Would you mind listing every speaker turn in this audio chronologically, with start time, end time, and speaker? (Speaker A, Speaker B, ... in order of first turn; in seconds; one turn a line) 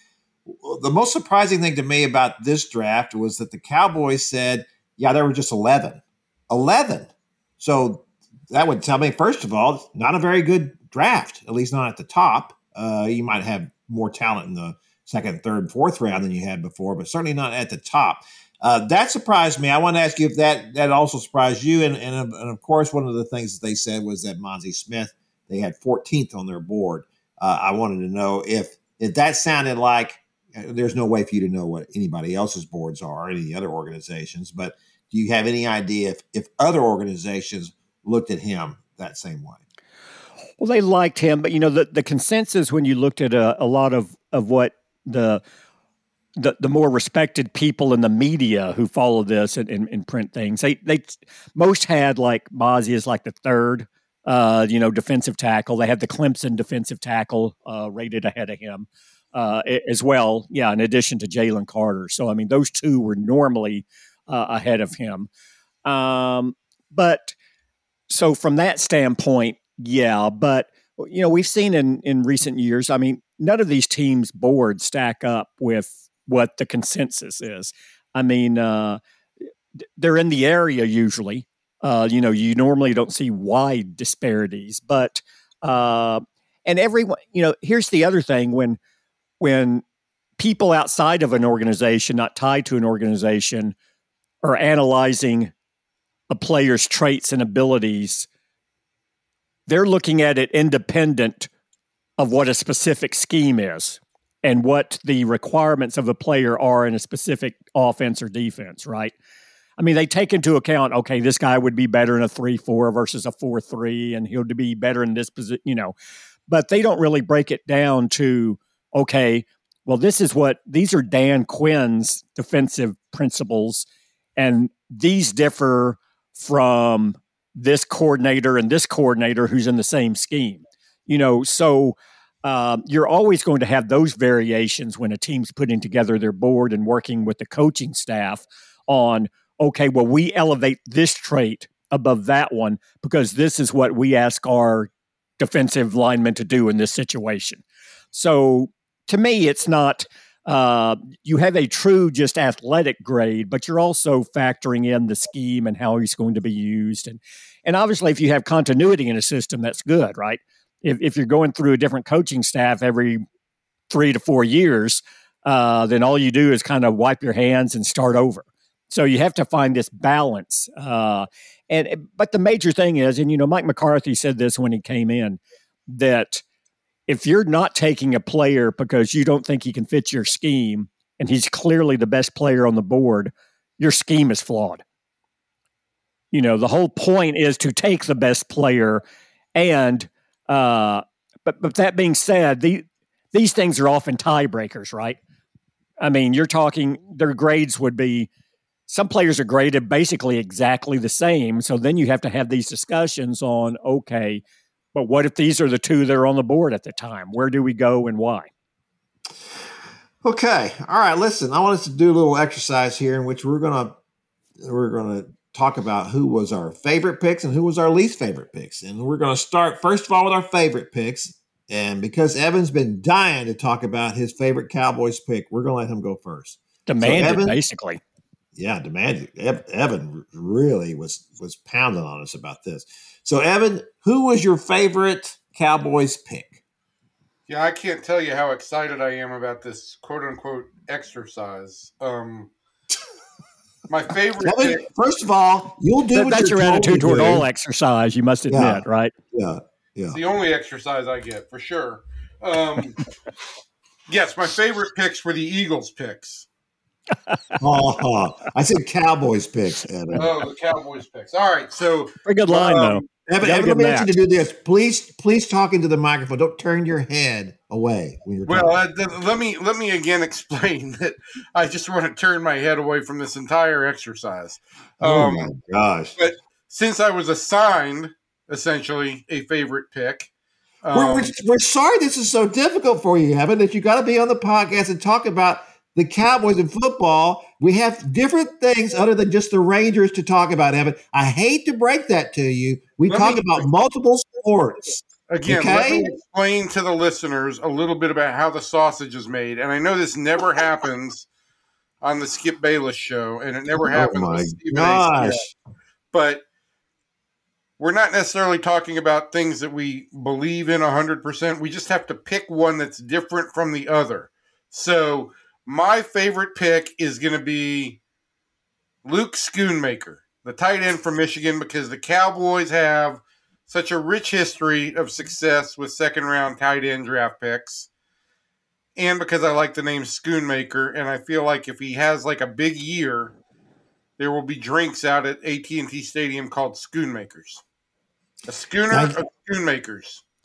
Speaker A: 0.5-39.6
Speaker B: 40.6-45.4
Speaker B: 46.4-65.3
Speaker B: 65.8-67.3
Speaker B: 68.1-79.0
Speaker B: 80.0-88.8
Speaker B: 89.4-89.8
Speaker B: 90.4-93.7
Speaker B: 94.4-95.5
Speaker B: 96.3-98.3
Speaker B: 99.7-101.5
Speaker B: 102.2-109.1
Speaker B: 109.8-115.9
Speaker B: 116.5-163.2
Speaker B: 163.9-176.4
Speaker B: 177.1-184.8
Speaker B: 186.3-189.0
Speaker B: 189.6-195.2
Speaker B: 196.0-198.3
Speaker B: 198.9-204.4
Speaker B: 204.9-208.5
Speaker A: 210.2-214.0
Speaker A: 214.6-227.5
Speaker B: 226.8-228.0
Speaker A: 228.5-236.6
Speaker C: 237.5-242.5
Speaker C: 243.9-244.8
Speaker A: 244.4-247.4
Speaker B: 246.1-249.1
Speaker A: 248.5-250.2
Speaker C: 250.1-253.0
Speaker C: 254.1-256.5
Speaker A: 257.6-260.4
Speaker C: 260.1-263.0
Speaker B: 262.2-264.1
Speaker A: 263.3-268.7
Speaker C: 268.4-275.5
Speaker A: 275.0-276.2
Speaker C: 276.2-280.3
Speaker C: 280.8-281.3
Speaker A: 280.9-296.1
Speaker C: 293.1-293.7
Speaker C: 295.3-301.3
Speaker C: 302.0-305.4
Speaker A: 303.8-305.5
Speaker C: 306.1-306.4
Speaker C: 307.8-318.0
Speaker C: 319.0-327.9
Speaker C: 328.9-333.3
Speaker C: 334.2-337.6
Speaker C: 338.5-340.2
Speaker A: 338.9-339.2